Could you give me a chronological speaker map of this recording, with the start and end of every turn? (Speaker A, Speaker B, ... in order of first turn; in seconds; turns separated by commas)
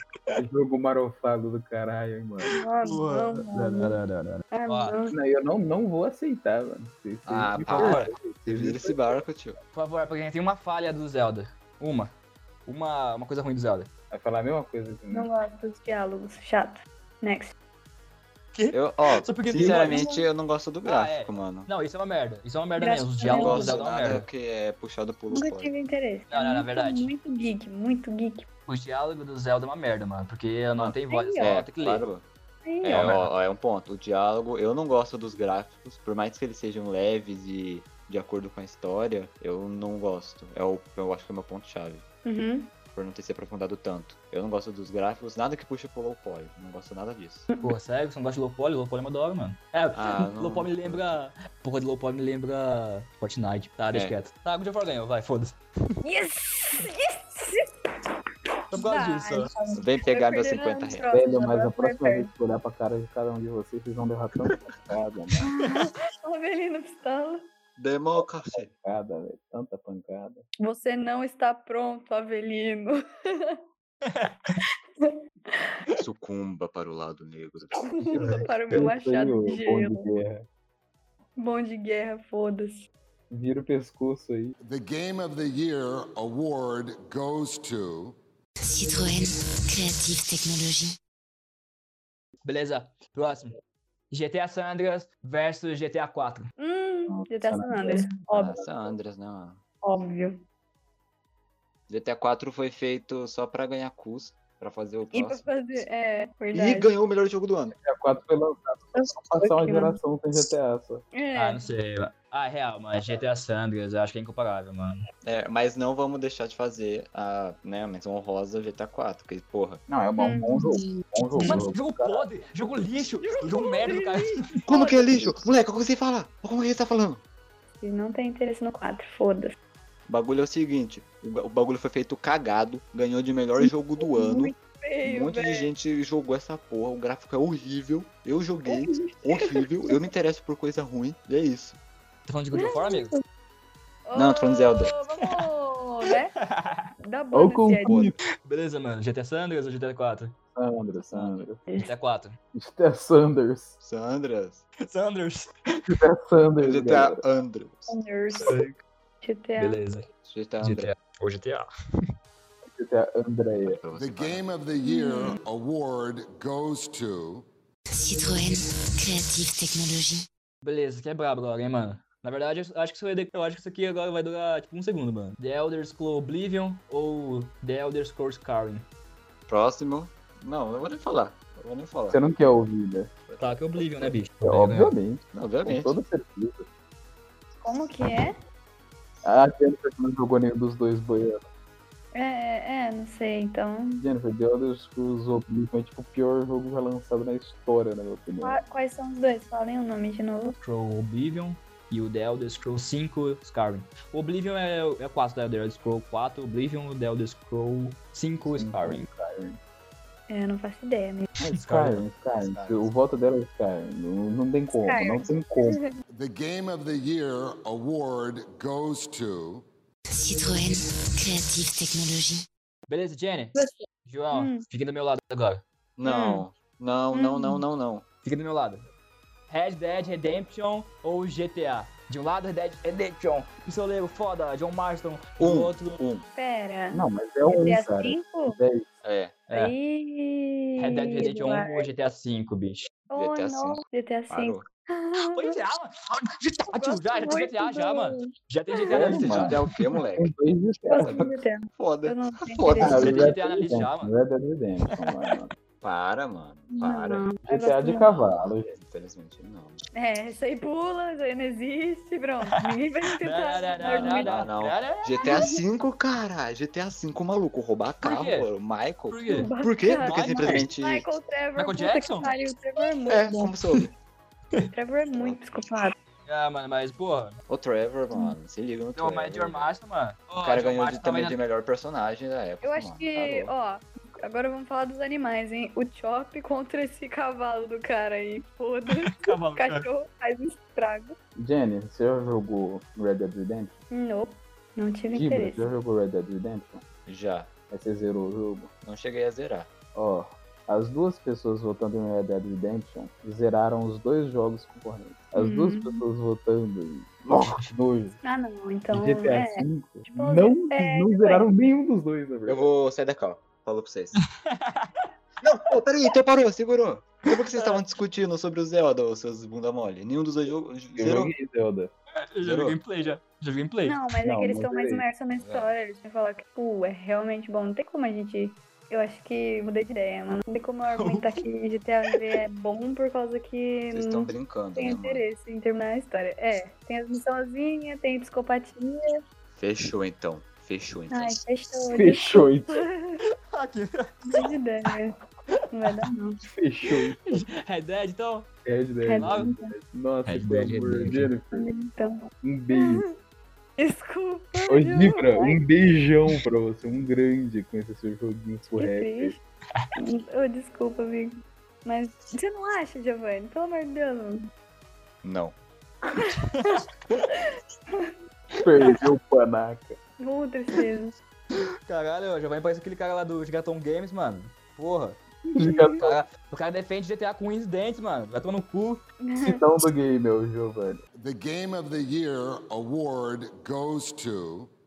Speaker A: 0.3-2.5, Speaker B: 2.5-4.0, Speaker C: 2.8-5.0, Speaker B: 4.5-5.2, Speaker A: 5.1-9.2, Speaker D: 7.3-9.6, Speaker C: 7.7-8.1, Speaker C: 9.7-12.1, Speaker C: 12.7-13.9, Speaker A: 14.1-15.3, Speaker B: 15.1-17.5, Speaker C: 18.5-20.1, Speaker D: 18.7-21.7, Speaker B: 19.7-20.2, Speaker C: 20.9-24.3, Speaker B: 22.8-23.8, Speaker D: 23.3-25.7, Speaker B: 25.3-28.5, Speaker C: 26.3-27.1, Speaker C: 28.7-32.1, Speaker D: 30.8-32.2, Speaker B: 31.1-31.6, Speaker B: 32.6-33.1, Speaker D: 32.8-42.0, Speaker C: 32.9-33.3, Speaker B: 42.2-42.7, Speaker D: 42.9-47.5, Speaker C: 47.6-55.6, Speaker D: 49.9-51.1, Speaker B: 56.0-57.7, Speaker C: 58.7-59.5, Speaker B: 58.7-62.3, Speaker D: 59.8-61.1, Speaker A: 61.1-65.5, Speaker B: 65.4-67.5, Speaker C: 65.6-65.9, Speaker D: 67.8-68.7, Speaker A: 68.5-70.5, Speaker B: 70.6-73.6, Speaker C: 74.1-74.5, Speaker B: 75.0-75.8, Speaker D: 76.0-78.4, Speaker B: 77.7-80.1, Speaker A: 78.1-80.5, Speaker B: 81.4-82.9, Speaker A: 83.3-84.6, Speaker E: 84.6-88.2, Speaker F: 88.6-91.0, Speaker C: 92.4-93.5, Speaker C: 94.1-96.5, Speaker B: 96.6-98.7, Speaker A: 97.1-98.1, Speaker D: 98.3-99.6, Speaker B: 99.8-100.4, Speaker D: 101.9-105.5, Speaker B: 105.1-106.9, Speaker D: 106.5-107.8, Speaker A: 107.8-111.0, Speaker B: 109.0-110.0, Speaker B: 111.1-111.6, Speaker C: 111.3-115.0, Speaker D: 115.2-119.8, Speaker A: 119.9-122.2, Speaker B: 120.2-121.7, Speaker C: 121.4-124.6, Speaker B: 123.2-125.1, Speaker D: 124.7-127.2, Speaker B: 127.8-129.6, Speaker D: 130.1-134.5, Speaker B: 133.6-135.7, Speaker D: 135.0-141.8, Speaker B: 138.7-140.0, Speaker C: 142.3-143.2, Speaker B: 142.5-143.2, Speaker B: 144.1-146.3, Speaker D: 144.2-144.9, Speaker C: 146.4-146.9, Speaker B: 147.0-148.1, Speaker A: 147.3-148.2, Speaker D: 147.9-148.1, Speaker C: 148.4-150.3, Speaker A: 150.6-151.6, Speaker D: 151.1-151.4, Speaker C: 151.8-152.4, Speaker A: 152.5-153.8, Speaker D: 153.8-154.7, Speaker C: 154.8-155.8, Speaker A: 155.9-157.2, Speaker D: 156.6-158.6, Speaker B: 157.9-158.6, Speaker C: 158.5-158.8, Speaker B: 159.2-159.8, Speaker C: 159.6-160.1, Speaker D: 160.2-160.9, Speaker C: 160.6-161.7, Speaker A: 162.7-163.8, Speaker D: 163.6-164.4, Speaker E: 163.9-167.5, Speaker B: 164.8-165.4, Speaker F: 167.9-170.3, Speaker C: 170.6-178.8, Speaker D: 179.5-182.2, Speaker A: 182.1-183.1, Speaker C: 183.4-184.9, Speaker A: 184.0-186.7, Speaker D: 185.3-185.9, Speaker B: 187.6-188.4, Speaker A: 189.2-191.4, Speaker B: 192.1-194.1, Speaker A: 194.0-198.6, Speaker B: 198.4-200.6, Speaker C: 200.6-209.1, Speaker A: 208.5-209.6, Speaker B: 210.3-211.3, Speaker A: 211.4-215.8, Speaker C: 211.5-212.0, Speaker D: 212.4-212.9, Speaker B: 214.7-216.0, Speaker E: 216.1-219.7, Speaker F: 220.1-222.5, Speaker C: 222.9-225.6, Speaker B: 223.6-224.7, Speaker D: 226.0-228.1, Speaker B: 226.0-226.4, Speaker B: 227.1-227.6, Speaker C: 228.2-228.9, Speaker C: 229.5-236.0, Speaker D: 235.4-236.3, Speaker B: 236.3-238.6, Speaker A: 236.9-238.9, Speaker D: 239.0-239.4, Speaker B: 239.5-241.9, Speaker C: 239.5-239.8, Speaker C: 240.8-242.9, Speaker B: 243.1-245.6, Speaker D: 243.2-244.7, Speaker C: 245.2-249.6, Speaker B: 246.7-249.2, Speaker D: 248.9-250.3, Speaker A: 249.0-249.6, Speaker A: 250.2-251.3, Speaker B: 250.9-253.7, Speaker D: 251.0-253.3, Speaker A: 252.8-255.5, Speaker C: 252.9-254.1, Speaker D: 255.8-257.3, Speaker B: 256.7-258.1, Speaker A: 257.4-258.7, Speaker D: 257.9-259.8, Speaker B: 259.9-264.5, Speaker C: 263.2-265.4, Speaker D: 263.9-271.1, Speaker B: 265.1-265.6, Speaker C: 268.0-268.5, Speaker C: 269.1-269.5, Speaker B: 269.3-273.6, Speaker C: 270.0-270.7, Speaker C: 271.6-272.3, Speaker D: 273.1-273.9, Speaker B: 274.7-275.9, Speaker D: 275.1-275.6, Speaker C: 276.3-277.4, Speaker D: 277.5-279.7, Speaker C: 279.0-281.4, Speaker D: 280.4-283.5, Speaker B: 282.6-291.2, Speaker C: 289.1-289.9, Speaker A: 291.4-293.8, Speaker B: 293.9-295.7, Speaker A: 295.1-296.8, Speaker D: 297.1-297.5, Speaker A: 297.7-298.7, Speaker D: 298.8-299.7, Speaker A: 299.9-308.2, Speaker B: 305.4-306.0, Speaker B: 308.2-311.5, Speaker A: 308.9-312.7, Speaker D: 312.5-314.2, Speaker C: 314.4-315.1, Speaker D: 315.4-321.3, Speaker C: 317.6-317.8, Speaker A: 321.0-321.9, Speaker C: 322.3-324.0, Speaker D: 322.4-322.8, Speaker B: 323.8-339.2, Speaker A: 324.2-325.0, Speaker D: 325.4-325.7, Speaker C: 330.9-331.4, Speaker D: 333.9-335.2, Speaker D: 339.6-341.4, Speaker B: 341.1-343.2, Speaker A: 341.9-342.9, Speaker C: 343.5-344.5, Speaker B: 344.2-345.1, Speaker B: 345.7-346.4, Speaker A: 346.5-347.4, Speaker C: 347.3-348.5, Speaker A: 348.6-351.7, Speaker B: 349.0-349.7, Speaker C: 349.1-349.5, Speaker D: 350.2-351.3, Speaker B: 351.5-353.2, Speaker A: 352.4-353.0, Speaker B: 353.8-355.6, Speaker A: 354.7-359.3, Speaker B: 358.8-359.4, Speaker B: 359.9-364.5, Speaker D: 365.2-365.6, Speaker B: 366.2-368.1, Speaker C: 366.5-367.2, Speaker A: 368.6-370.0, Speaker B: 370.2-371.2, Speaker C: 371.9-375.2, Speaker B: 375.5-376.0, Speaker A: 375.6-376.2, Speaker C: 376.0-379.0, Speaker B: 379.2-379.6, Speaker A: 379.4-381.0, Speaker E: 381.1-384.7